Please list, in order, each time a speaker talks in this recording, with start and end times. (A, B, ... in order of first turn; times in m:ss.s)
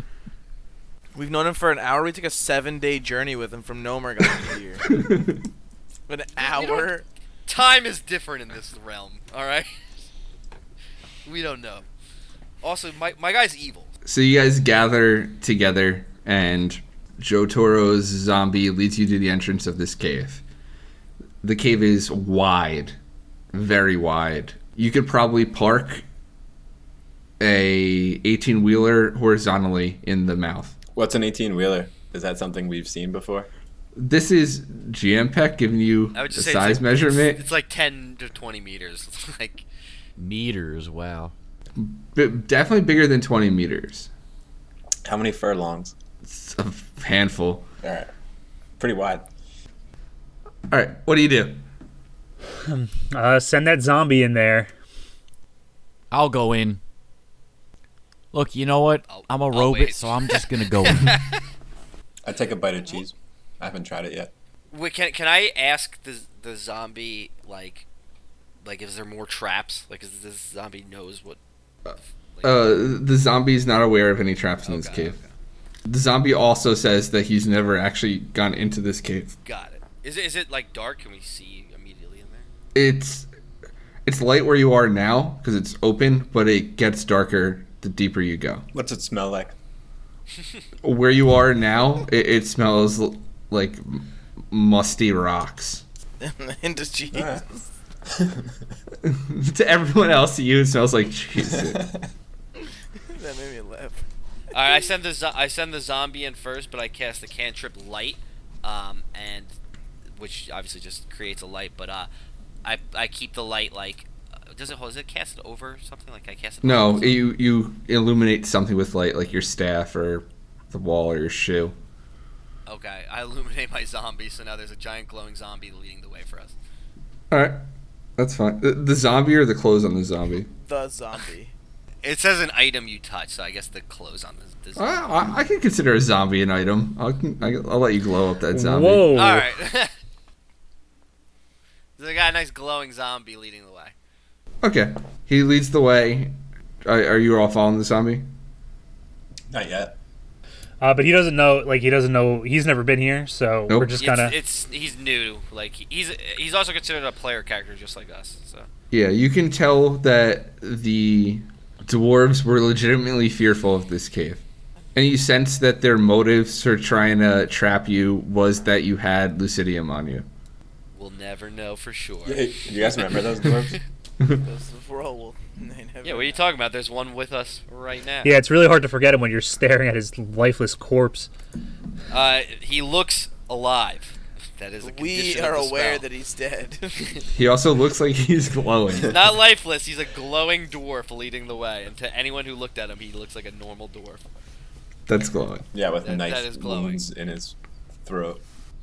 0:01.2-0:04.9 A
0:04.9-0:05.5 B
0:06.1-0:07.1 A
0:06.4-0:06.9 C
0:07.5-0:09.7 C
0:11.2-0:11.9 C
0:12.6-0:13.9 C
0:14.0-0:20.4 B
0:21.4-0:23.0 B
0:23.5-0:26.0 B
0:27.4-0:30.8 B
0:31.0-0:33.5 D
0:34.0-0:37.4 B
0:36.2-0:39.7 C
0:40.2-0:41.3 E
0:41.8-0:44.1 B
0:45.0-0:45.9 D
0:46.2-0:47.7 B
0:47.8-0:48.1 D
0:48.8-0:49.3 D
0:50.7-0:51.6 B
0:52.6-0:54.7 F
0:56.1-0:56.8 E
0:58.3-1:01.2 E
0:59.1-1:01.4 C
1:02.2-1:04.3 D
1:04.7-1:07.8 C
1:08.6-1:11.4 C
1:11.9-1:15.2 B
1:14.6-1:15.3 C
1:15.9-1:19.4 B
1:19.4-1:22.5 C
1:22.8-1:23.3 B
1:24.0-1:28.7 B
1:28.7-1:29.6 D
1:30.8-1:35.8 B
1:36.2-1:37.7 A
1:37.1-1:37.4 D
1:38.1-1:38.5 D
1:39.0-1:41.9 B
1:41.5-1:42.0 D
1:43.0-1:44.1 A
1:44.5-1:49.6 C
1:50.2-1:52.1 C
1:52.6-1:57.2 C
1:56.6-2:01.8 B
2:02.7-2:06.6 C
2:07.3-2:07.6 B
2:08.2-2:10.5 B
2:10.6-2:11.5 A
2:12.0-2:15.0 C
2:14.8-2:19.1 B
2:18.5-2:19.5 F
2:19.2-2:19.9 C
2:22.0-2:23.9 C
2:24.6-2:26.3 B
2:26.8-2:28.3 B
2:29.5-2:30.0 D
2:30.8-2:34.4 F
2:33.7-2:34.0 B
2:34.0-2:38.7 C
2:38.9-2:44.4 B
2:45.0-2:50.3 B
2:50.9-2:53.8 C
2:52.3-2:53.8 D
2:54.3-2:56.4 A
2:56.0-2:58.4 C
2:58.2-3:01.3 F
3:02.1-3:06.0 C
3:04.8-3:07.2 A
3:07.4-3:09.4 B
3:09.1-3:14.2 C
3:15.1-3:15.7 B
3:15.7-3:17.6 D
3:16.0-3:17.0 C
3:18.1-3:18.4 D